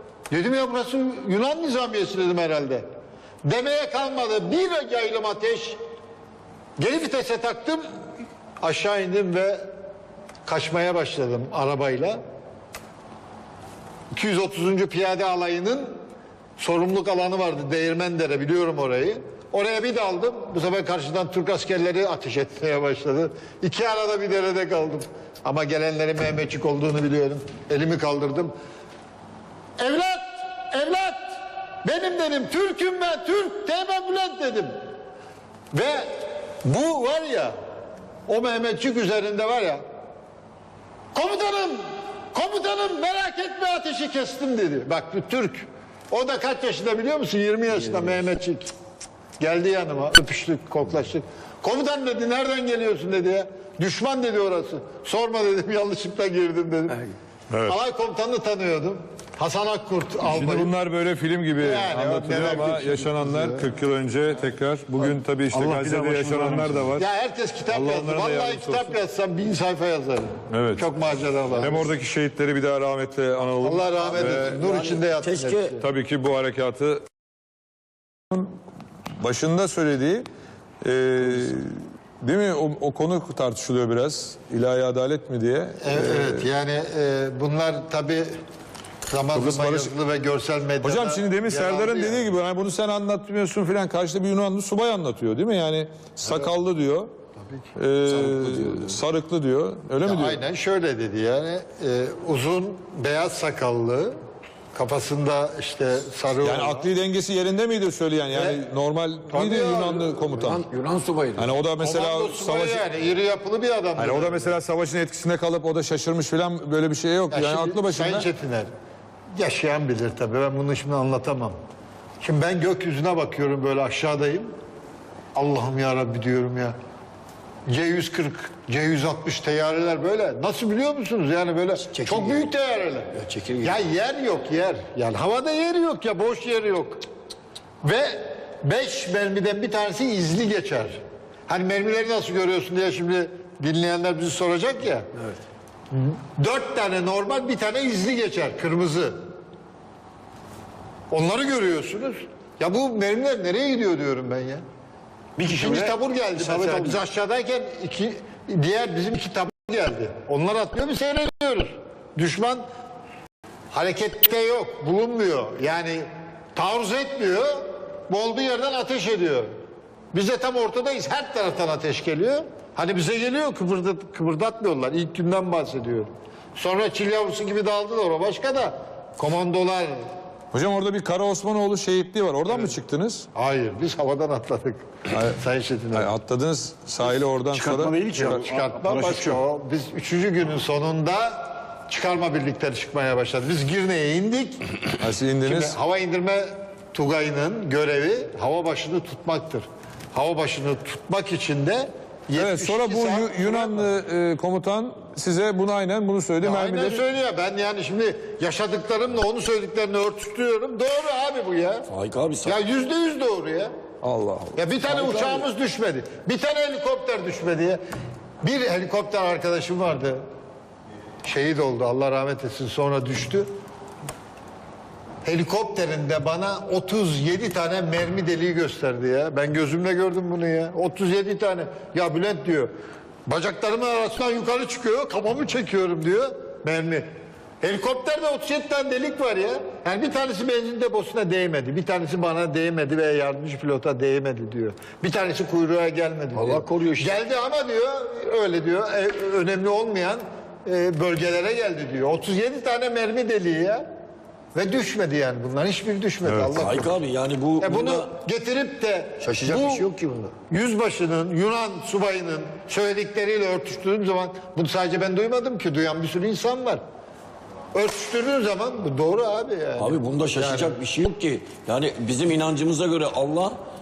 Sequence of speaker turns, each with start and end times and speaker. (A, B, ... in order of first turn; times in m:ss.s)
0:00.3-0:02.8 A
0:03.4-0:05.8 A
0:06.8-0:07.9 A
0:08.6-0:09.7 A
0:10.4-0:12.2 A
0:14.1-0:15.9 A
0:16.6-0:28.5 A
0:29.8-0:34.7 A
0:35.7-0:37.5 A
0:38.3-0:39.8 A
0:41.1-0:48.7 A
0:49.4-0:57.1 A
0:57.7-1:00.7 A
1:00.3-1:07.1 B
1:01.6-1:03.7 A
1:05.5-1:06.9 C
1:07.0-1:11.9 A
1:07.7-1:09.0 B
1:10.5-1:10.9 B
1:11.6-1:14.6 B
1:13.6-1:15.8 A
1:14.1-1:15.8 D
1:15.8-1:17.0 B
1:19.2-1:20.3 B
1:20.8-1:26.5 B
1:25.8-1:28.3 A
1:29.1-1:32.3 A
1:29.3-1:29.9 B
1:30.8-1:37.1 B
1:37.8-1:40.4 B
1:40.0-1:44.2 A
1:44.7-1:46.9 A
1:46.4-1:50.6 B
1:48.3-1:48.6 A
1:49.3-1:50.3 A
1:50.4-1:51.6 D
1:51.4-1:52.8 B
1:51.8-1:54.6 A
1:54.0-1:58.3 B
1:57.3-1:58.7 A
1:59.4-2:01.6 A
2:02.2-2:04.5 A
2:05.4-2:06.8 A
2:07.7-2:17.0 A
2:11.9-2:12.5 D
2:13.1-2:13.8 D
2:17.8-2:25.1 A
2:25.9-2:29.2 A
2:31.1-2:34.6 A
2:35.4-2:37.0 C
2:35.5-2:42.6 A
2:43.7-2:49.5 A
2:50.1-3:00.0 A
3:00.5-3:03.3 B
3:03.4-3:06.1 A
3:05.1-3:05.4 B
3:05.9-3:08.4 B
3:07.2-3:09.4 C
3:08.2-3:14.7 A
3:15.0-3:15.8 B
3:15.4-3:23.9 A
3:22.4-3:27.0 B
3:26.4-3:31.9 A
3:31.9-3:32.6 D
3:32.4-3:33.7 A
3:34.0-3:34.6 B
3:34.6-3:37.8 A
3:38.4-3:40.2 A
3:41.2-3:43.5 A
3:45.2-3:52.7 A
3:53.3-3:57.1 A
3:57.6-4:13.9 A
4:06.3-4:07.2 D
4:14.5-4:17.0 A
4:16.2-4:16.6 B
4:16.6-4:18.1 D
4:17.6-4:19.9 A
4:19.2-4:20.3 D
4:20.5-4:26.8 A
4:27.7-4:30.8 A
4:29.8-4:33.6 D